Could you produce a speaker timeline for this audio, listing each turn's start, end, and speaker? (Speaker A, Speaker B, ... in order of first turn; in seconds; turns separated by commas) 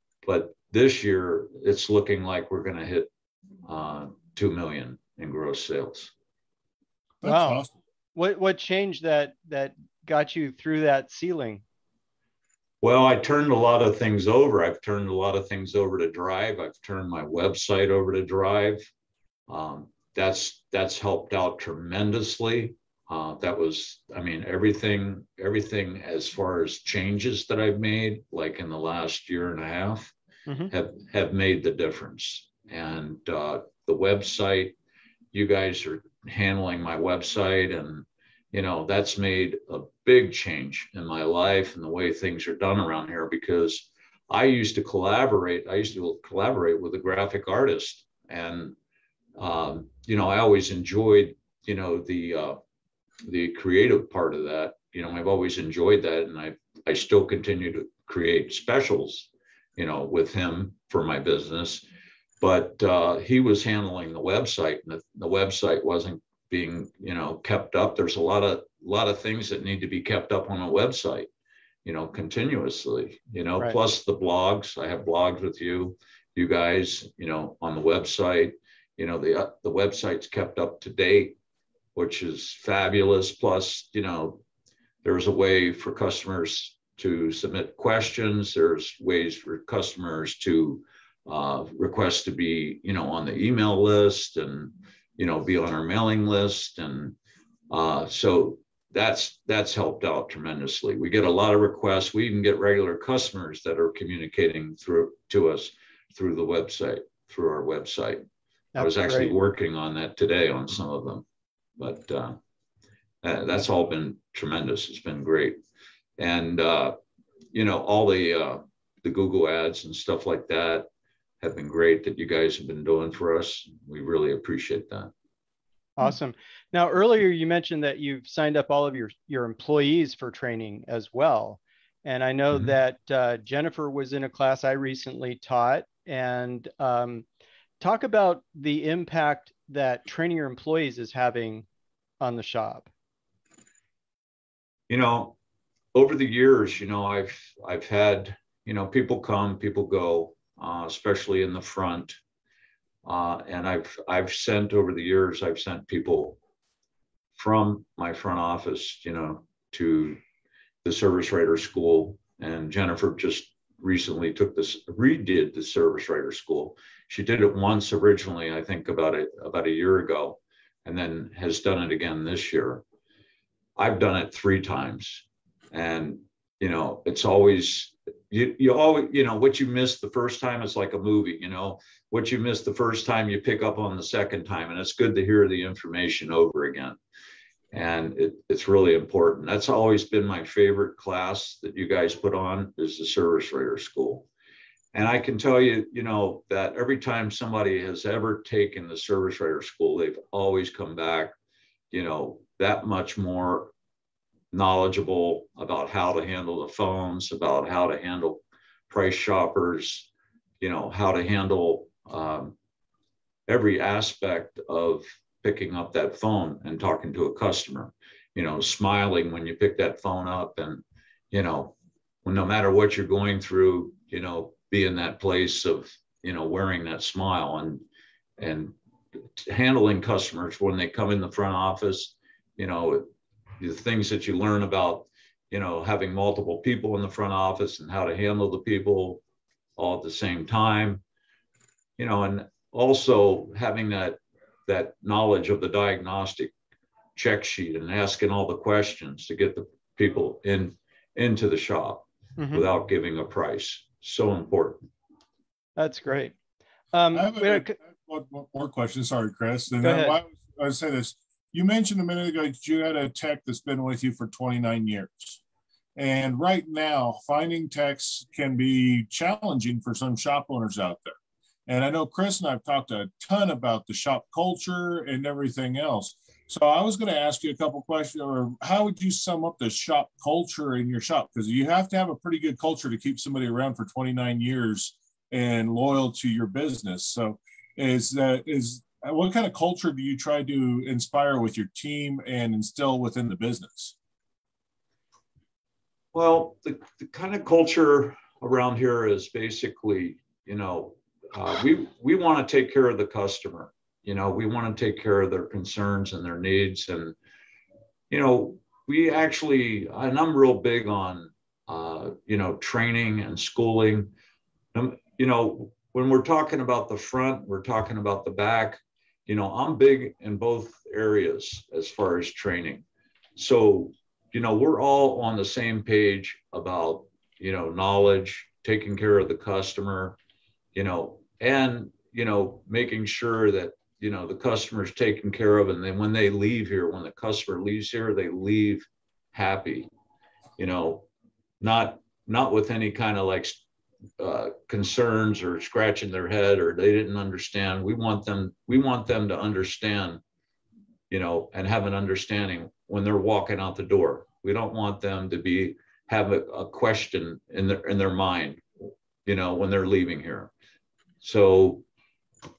Speaker A: 0.2-3.1, Speaker A: 3.6-6.1, Speaker B: 7.2-7.8, Speaker C: 7.2-11.6, Speaker A: 12.8-18.8, Speaker A: 19.5-30.1, Speaker C: 30.5-30.7, Speaker A: 30.7-34.8, Speaker A: 35.3-48.8, Speaker A: 49.4-52.6, Speaker A: 53.2-61.8, Speaker A: 62.4-71.3, Speaker A: 71.8-81.4, Speaker A: 82.0-84.4, Speaker A: 85.0-97.2, Speaker A: 97.7-108.2, Speaker C: 108.8-109.3, Speaker A: 108.8-111.2, Speaker A: 111.8-112.4, Speaker A: 113.2-115.6, Speaker A: 116.2-117.0, Speaker A: 117.5-120.9, Speaker A: 121.4-125.1, Speaker C: 126.0-137.3, Speaker C: 137.8-141.7, Speaker C: 142.2-142.9, Speaker A: 144.9-145.4, Speaker A: 145.9-152.2, Speaker A: 153.0-156.4, Speaker A: 157.3-160.2, Speaker A: 160.8-172.8, Speaker A: 173.8-187.0, Speaker A: 187.7-194.3, Speaker A: 194.9-201.3, Speaker A: 201.9-203.7, Speaker A: 204.5-210.1, Speaker A: 210.6-212.6, Speaker A: 213.5-227.8, Speaker A: 228.4-228.8, Speaker A: 229.4-233.1, Speaker A: 233.6-239.2, Speaker A: 239.8-241.0, Speaker A: 242.0-246.5, Speaker A: 247.2-254.9, Speaker C: 252.4-252.7, Speaker C: 255.8-256.4, Speaker C: 256.9-257.8, Speaker B: 257.1-265.4, Speaker C: 259.8-260.2, Speaker B: 266.0-271.2, Speaker B: 271.7-293.9, Speaker A: 296.1-307.2, Speaker A: 308.1-314.1, Speaker A: 314.7-322.9, Speaker A: 323.4-330.2, Speaker A: 330.7-339.9, Speaker A: 340.6-341.1, Speaker A: 341.6-343.6, Speaker A: 344.2-350.2, Speaker A: 351.1-358.6, Speaker A: 359.2-360.5, Speaker A: 361.2-361.8